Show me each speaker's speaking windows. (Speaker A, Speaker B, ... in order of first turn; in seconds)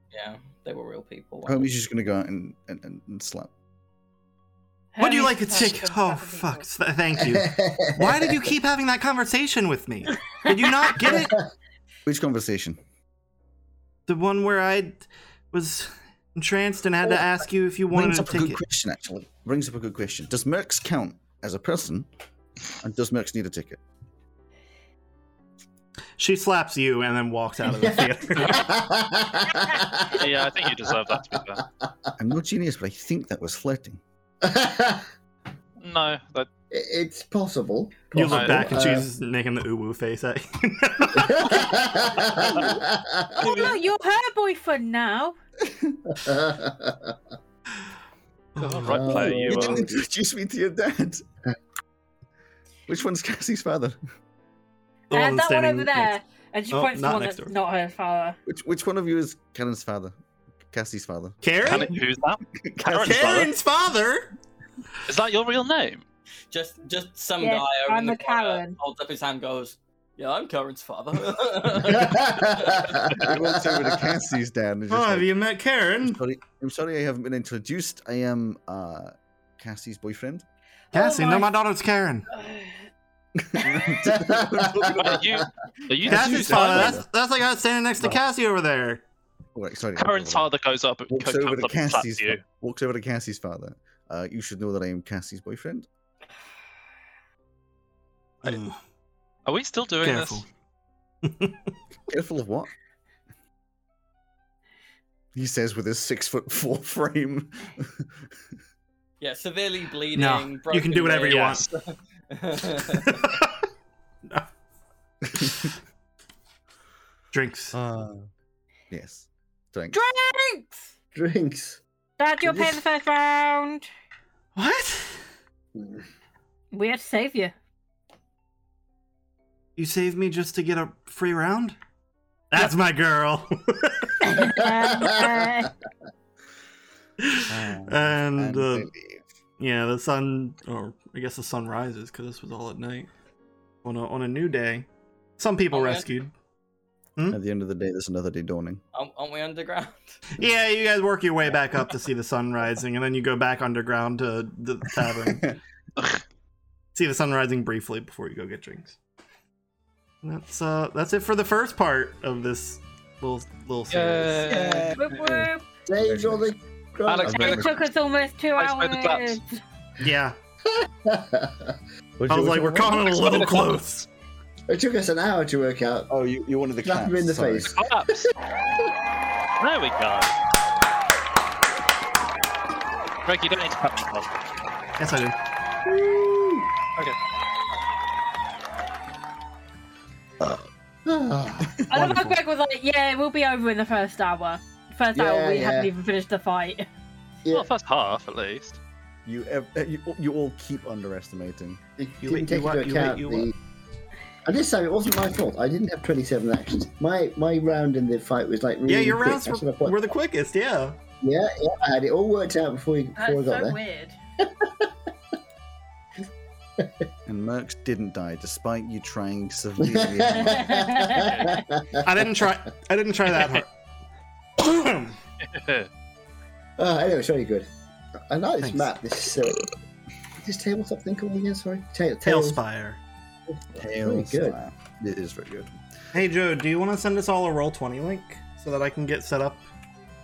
Speaker A: 0.1-1.7, 66.5-72.9, 109.2-113.3, 145.7-146.1, 148.9-150.2
Speaker B: 1.5-3.5, 12.1-12.8, 17.9-22.1, 22.8-23.8, 32.2-34.0, 45.7-46.0, 49.5-51.2, 52.9-54.0, 58.5-60.2, 60.7-61.9, 62.6-63.5, 73.2-75.3, 76.0-80.5, 83.5-85.2, 86.0-87.0, 89.5-90.5, 91.1-95.9, 102.1-102.7, 105.3-108.3, 115.4-115.7, 117.7-118.3, 118.9-120.0, 137.5-139.3, 147.3-148.8, 164.5-165.2, 166.0-166.5, 167.2-167.8, 172.2-173.1, 176.1-177.8, 199.2-201.8, 217.3-220.8, 233.8-235.8
Speaker C: 4.9-6.7, 10.1-10.7, 43.4-45.4, 55.1-58.4, 67.4-68.8, 80.9-81.5, 82.3-82.7, 119.9-120.9, 122.2-123.9, 126.7-127.5, 134.2-135.7, 165.0-165.7, 167.3-169.6, 191.9-196.9, 213.2-214.2, 220.5-221.6
Speaker D: 5.0-11.4, 14.1-18.6, 26.2-28.7, 38.1-41.7, 48.5-49.5, 55.1-56.1, 56.7-57.5, 61.4-62.0, 63.0-64.4, 74.9-76.2, 80.9-82.3, 86.1-89.0, 98.4-98.8, 100.0-100.5, 101.2-101.6, 110.2-111.7, 112.9-113.7, 115.3-115.7, 117.3-117.8, 124.6-125.2, 129.8-131.8, 132.5-134.3, 137.2-138.9, 139.6-143.1, 143.8-144.9, 145.4-146.3, 150.3-155.6, 156.9-159.0, 160.2-164.6, 170.0-170.4, 172.3-174.1, 185.0-185.4, 191.9-192.3, 202.2-203.5, 208.9-211.0, 222.0-223.7, 224.6-225.2, 228.6-228.9, 232.2-233.0, 236.1-239.7
Speaker E: 7.2-8.5, 11.1-11.4, 27.7-31.2, 34.4-35.1, 36.7-39.1, 41.2-43.7, 46.1-47.2, 48.9-50.0, 71.8-74.1, 84.0-85.3, 121.2-121.8, 122.5-122.8, 125.8-126.0, 135.0-135.3, 165.9-167.7, 170.7-171.8, 174.7-176.1, 176.8-178.3, 185.8-186.7, 190.4-191.9, 195.1-195.9, 202.0-203.5, 204.4-210.2, 211.2-213.8, 214.4-214.9, 216.8-217.1, 219.8-222.3, 226.8-227.7, 228.3-229.7, 230.4-232.6, 233.5-234.6
Speaker F: 30.1-31.6, 35.8-36.5, 38.3-38.6, 48.6-49.9, 61.6-63.5, 65.0-66.0, 84.8-87.0, 90.0-92.4, 99.5-100.4, 111.3-111.7, 163.9-165.4, 167.1-167.7, 168.6-169.4, 173.1-173.8, 177.8-178.3, 179.6-180.4, 183.2-184.3, 197.5-198.8, 221.1-221.6, 225.4-225.9